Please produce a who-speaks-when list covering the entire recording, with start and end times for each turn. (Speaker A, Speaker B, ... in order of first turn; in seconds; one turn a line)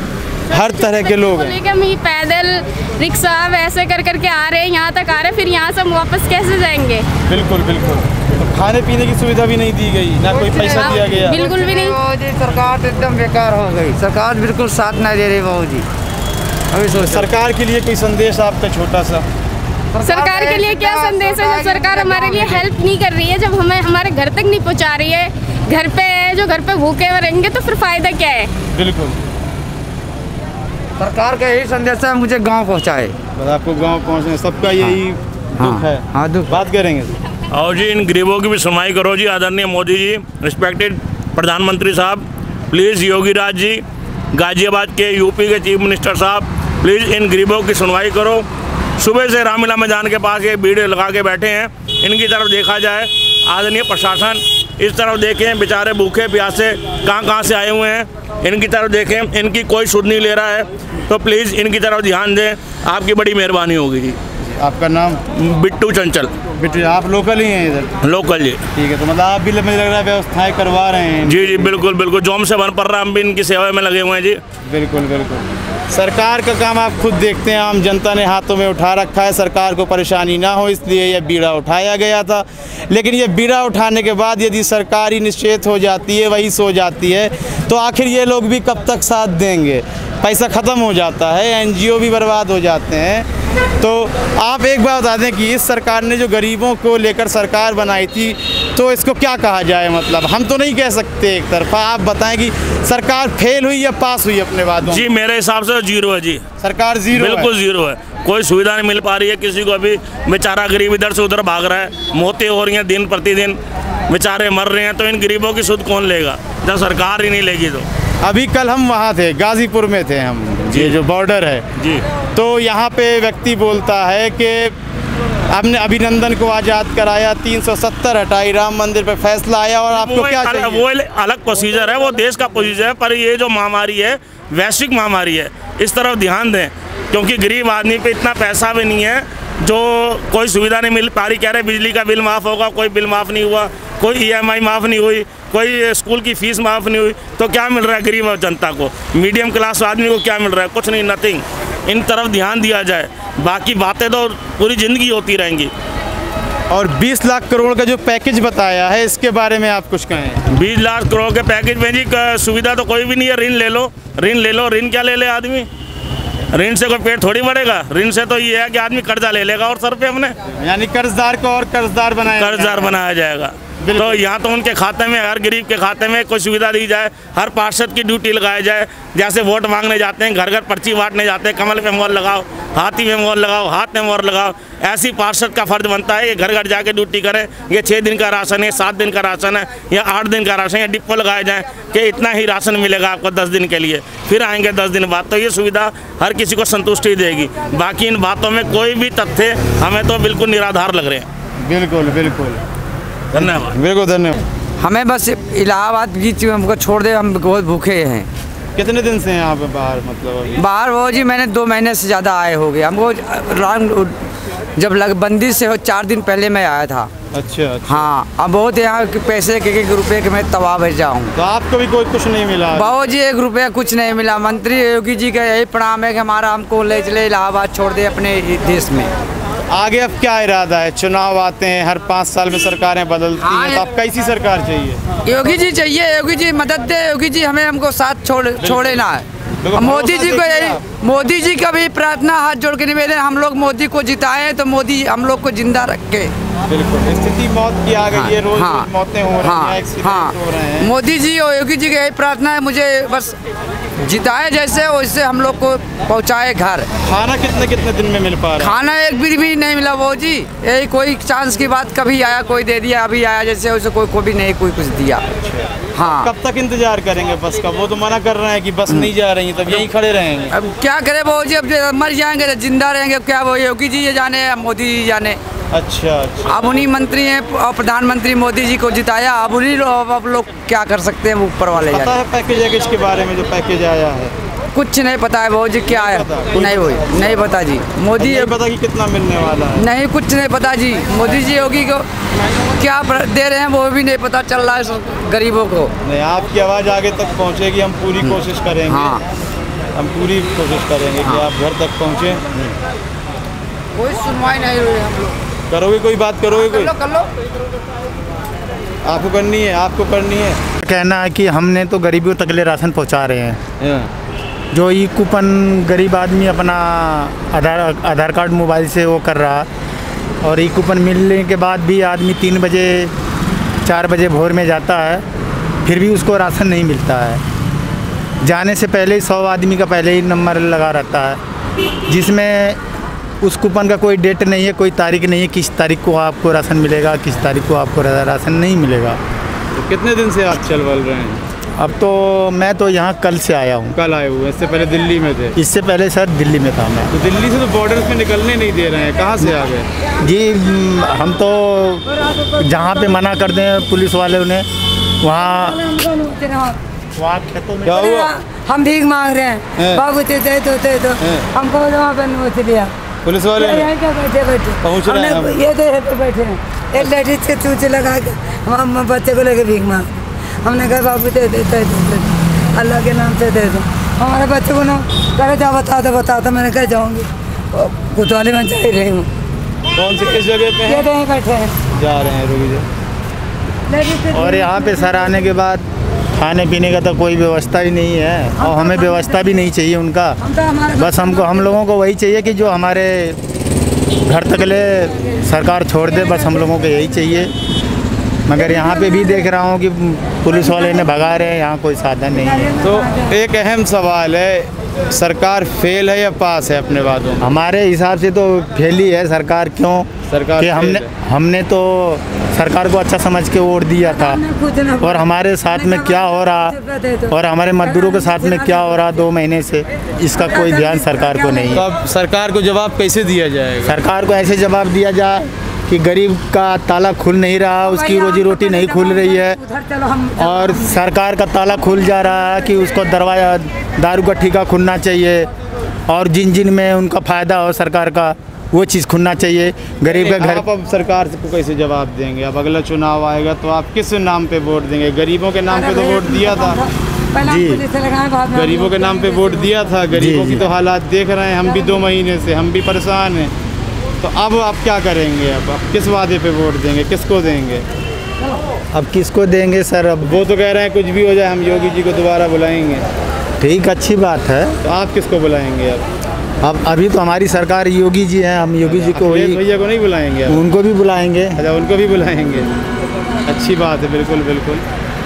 Speaker A: 0.5-1.6
Speaker B: 0.5-7.0
Speaker A: 7.3-11.5
Speaker C: 10.3-15.8
Speaker B: 10.7-11.9
Speaker C: 16.7-17.3
Speaker A: 16.9-19.2
Speaker C: 20.0-22.6
Speaker B: 20.0-28.5
Speaker A: 28.7-29.2
Speaker C: 31.0-33.1
Speaker A: 33.4-37.1
Speaker C: 35.6-36.5
Speaker D: 37.5-43.8
Speaker D: 44.3-48.5
Speaker D: 49.0-64.2
Speaker A: 64.5-65.2
Speaker D: 65.3-66.3
Speaker A: 66.6-67.9
Speaker D: 68.0-68.6
Speaker A: 68.7-71.7
Speaker D: 71.2-74.4
Speaker A: 74.7-93.3
Speaker A: 93.8-105.0
Speaker D: 104.9-106.4
Speaker A: 106.6-107.5
Speaker D: 107.1-113.6
Speaker D: 114.1-117.8
Speaker A: 118.2-121.7
Speaker D: 120.7-121.0
Speaker D: 121.8-122.0
Speaker A: 122.3-124.7
Speaker A: 125.5-130.8
Speaker D: 129.9-155.7
Speaker A: 156.7-160.4
Speaker D: 160.5-165.7
Speaker D: 166.5-170.3
Speaker A: 170.5-173.0
Speaker D: 172.3-201.3
Speaker A: 173.8-174.2
Speaker A: 201.6-202.6
Speaker D: 203.3-203.8
Speaker A: 203.4-204.4
Speaker C: 204.8-208.3
Speaker A: 208.8-210.6
Speaker C: 210.6-214.2
Speaker C: 214.8-217.1
Speaker A: 217.3-218.1
Speaker C: 217.9-221.3
Speaker A: 221.3-223.0
Speaker C: 222.7-229.1
Speaker A: 229.7-235.0
Speaker C: 233.4-233.8
Speaker C: 235.2-246.3
Speaker A: 238.6-239.0
Speaker A: 239.6-240.8
Speaker A: 246.7-250.9
Speaker C: 248.1-248.9
Speaker C: 249.4-253.4
Speaker C: 254.0-256.9
Speaker A: 257.0-258.8
Speaker C: 258.6-265.2
Speaker A: 265.4-265.7
Speaker C: 265.9-266.3
Speaker A: 266.2-270.5
Speaker C: 270.5-275.4
Speaker A: 275.7-276.9
Speaker C: 276.4-282.1
Speaker A: 281.7-284.3
Speaker C: 284.7-288.6
Speaker A: 285.9-287.0
Speaker A: 288.2-289.9
Speaker C: 289.8-292.1
Speaker C: 292.7-295.9
Speaker A: 296.0-299.2
Speaker C: 298.2-299.2
Speaker A: 299.9-302.6
Speaker C: 303.9-305.4
Speaker A: 305.7-306.9
Speaker C: 306.5-307.3
Speaker A: 309.0-310.6
Speaker E: 310.8-313.6
Speaker A: 313.8-314.1
Speaker E: 314.7-319.7
Speaker E: 320.4-323.1
Speaker E: 323.8-325.2
Speaker E: 325.8-327.4
Speaker E: 328.4-331.4
Speaker E: 332.1-332.8
Speaker E: 333.4-339.2
Speaker A: 339.7-341.4
Speaker E: 341.8-343.9
Speaker A: 343.9-345.6
Speaker E: 345.6-347.1
Speaker A: 347.1-349.9
Speaker E: 350.2-352.1
Speaker E: 352.6-354.6
Speaker E: 355.2-355.8
Speaker F: 355.4-356.8
Speaker E: 357.2-357.9
Speaker A: 357.8-358.3
Speaker F: 357.9-362.9
Speaker A: 359.8-360.0
Speaker A: 361.2-361.5
Speaker A: 363.2-363.9
Speaker F: 363.6-370.1
Speaker A: 364.8-365.6
Speaker F: 370.6-379.3
Speaker A: 379.9-381.1
Speaker F: 380.8-381.7
Speaker A: 381.9-382.9
Speaker F: 383.9-385.5
Speaker E: 384.3-390.3
Speaker F: 388.6-389.6
Speaker F: 390.4-391.7
Speaker E: 391.0-393.4
Speaker E: 394.2-397.5
Speaker F: 396.3-396.6
Speaker E: 398.5-402.7
Speaker F: 398.7-399.4
Speaker F: 402.4-403.3
Speaker A: 402.8-407.5
Speaker E: 407.4-410.1
Speaker A: 410.3-411.1
Speaker E: 410.6-414.4
Speaker F: 414.0-419.2
Speaker E: 415.0-416.7
Speaker E: 417.3-421.8
Speaker F: 420.3-421.8
Speaker A: 421.7-423.9
Speaker E: 423.8-429.6
Speaker F: 427.8-431.0
Speaker E: 430.4-435.5
Speaker E: 436.1-440.6
Speaker A: 440.1-446.8
Speaker F: 445.7-450.0
Speaker E: 447.4-447.8
Speaker A: 448.5-453.5
Speaker E: 450.1-450.6
Speaker F: 451.6-452.0
Speaker A: 454.2-457.8
Speaker E: 458.9-460.4
Speaker A: 460.2-463.0
Speaker E: 463.6-464.7
Speaker A: 464.8-466.0
Speaker E: 466.6-469.6
Speaker A: 468.8-470.6
Speaker E: 470.5-471.6
Speaker A: 471.6-472.7
Speaker A: 473.4-474.8